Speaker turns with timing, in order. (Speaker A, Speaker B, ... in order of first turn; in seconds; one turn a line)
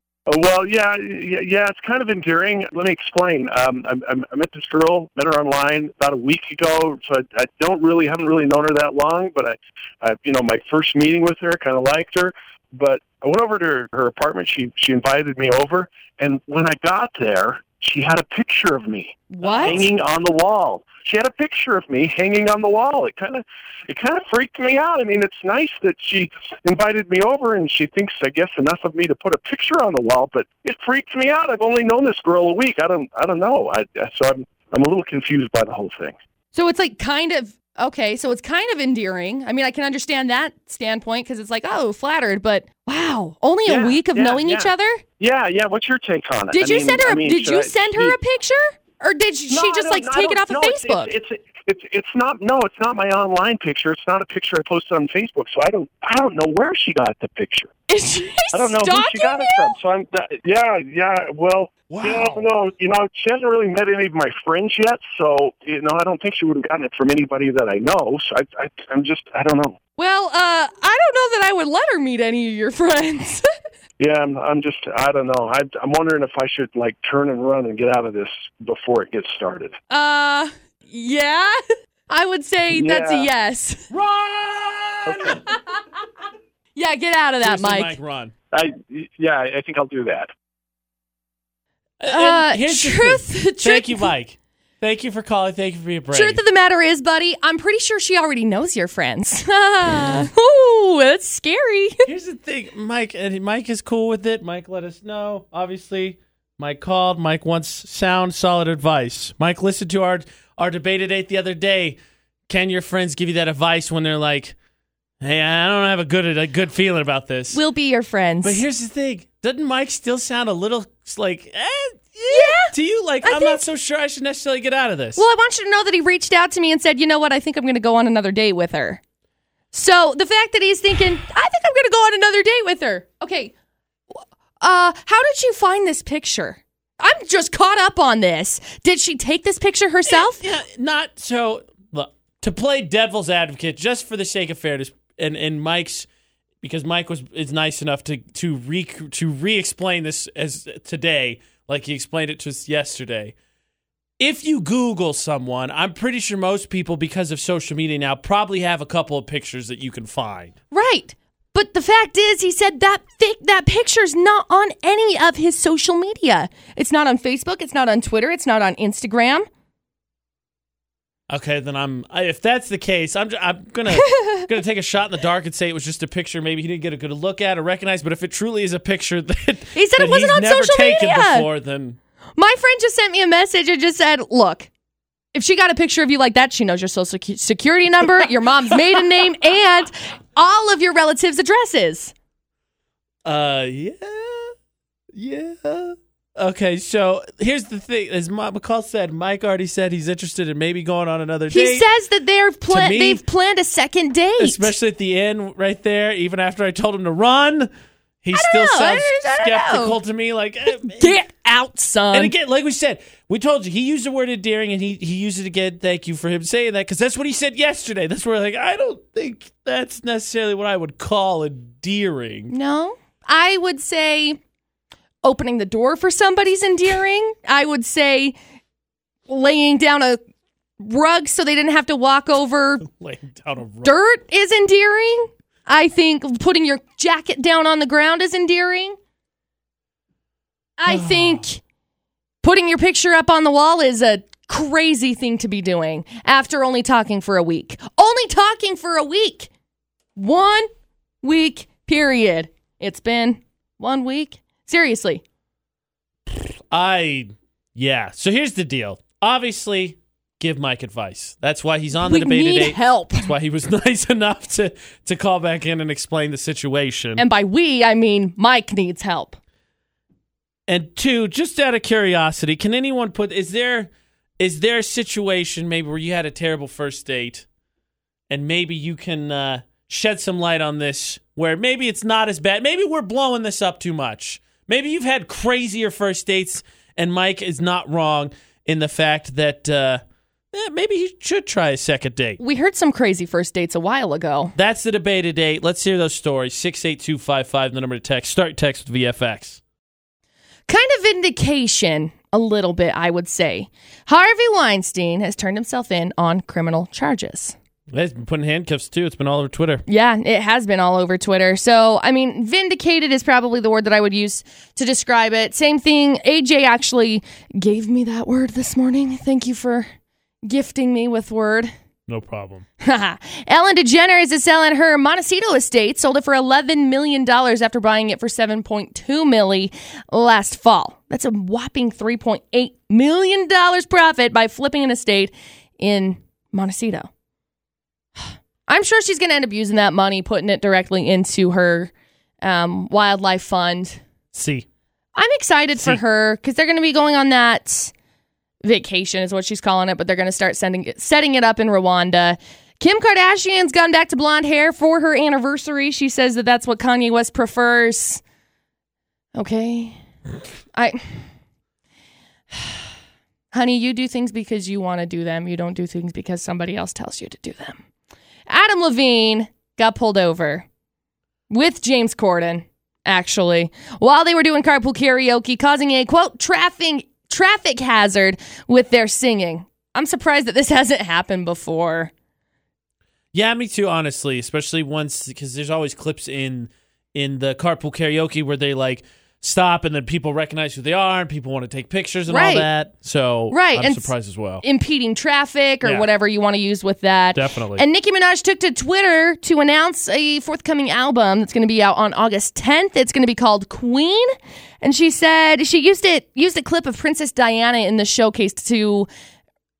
Speaker A: 0.3-36.2
Speaker B: 19.3-19.9
Speaker C: 19.4-19.9
Speaker B: 36.5-45.0
Speaker A: 43.7-48.2
Speaker B: 46.5-51.1
Speaker A: 49.5-57.7
Speaker B: 57.9-59.7
Speaker A: 58.5-69.8
Speaker C: 61.9-62.5
Speaker B: 70.0-73.5
Speaker A: 74.0-79.8
Speaker B: 79.9-83.9
Speaker A: 82.7-83.3
Speaker C: 83.9-85.4
Speaker A: 85.1-85.4
Speaker B: 85.5-85.8
Speaker B: 86.8-88.0
Speaker C: 87.4-88.3
Speaker A: 88.5-90.3
Speaker C: 92.0-96.4
Speaker B: 92.1-94.1
Speaker B: 96.1-102.0
Speaker C: 102.0-112.0
Speaker C: 112.5-114.5
Speaker C: 115.2-117.6
Speaker B: 117.5-118.6
Speaker C: 118.4-125.2
Speaker B: 122.3-123.6
Speaker B: 125.2-129.0
Speaker B: 129.7-133.5
Speaker B: 134.1-140.4
Speaker C: 140.1-146.1
Speaker C: 146.6-153.3
Speaker C: 154.2-160.6
Speaker B: 160.7-169.5
Speaker C: 171.3-182.0
Speaker B: 173.9-174.4
Speaker B: 179.8-181.5
Speaker B: 182.4-184.7
Speaker B: 185.3-192.1
Speaker C: 193.2-194.5
Speaker C: 195.1-201.9
Speaker B: 201.5-204.7
Speaker C: 202.7-203.2
Speaker C: 204.4-207.7
Speaker C: 208.2-211.2
Speaker B: 208.3-210.0
Speaker B: 210.7-212.3
Speaker C: 212.1-222.5
Speaker B: 222.5-224.4
Speaker B: 225.2-228.4
Speaker B: 229.3-230.2
Speaker B: 230.8-232.8
Speaker C: 232.8-233.9
Speaker B: 233.8-239.0
Speaker B: 240.8-241.6
Speaker C: 240.9-241.4
Speaker B: 242.4-249.5
Speaker B: 250.2-250.7
Speaker B: 251.2-255.2
Speaker C: 256.7-267.2
Speaker B: 262.0-263.3
Speaker B: 267.2-269.4
Speaker C: 270.7-277.4
Speaker C: 278.3-290.0
Speaker C: 290.5-292.4
Speaker B: 292.4-294.5
Speaker C: 294.6-299.6
Speaker B: 300.7-307.6
Speaker C: 307.9-309.8
Speaker B: 309.9-319.9
Speaker B: 320.4-321.7
Speaker C: 322.1-322.6
Speaker B: 322.8-337.1
Speaker B: 338.2-344.0
Speaker C: 344.3-344.7
Speaker B: 345.2-347.9
Speaker B: 348.6-358.2
Speaker B: 359.4-360.0
Speaker B: 360.7-361.2
Speaker B: 362.5-362.8
Speaker B: 363.5-367.8
Speaker B: 368.5-370.7
Speaker B: 371.5-382.1
Speaker C: 383.3-394.6
Speaker B: 392.3-392.7
Speaker B: 393.5-409.1
Speaker C: 397.4-397.8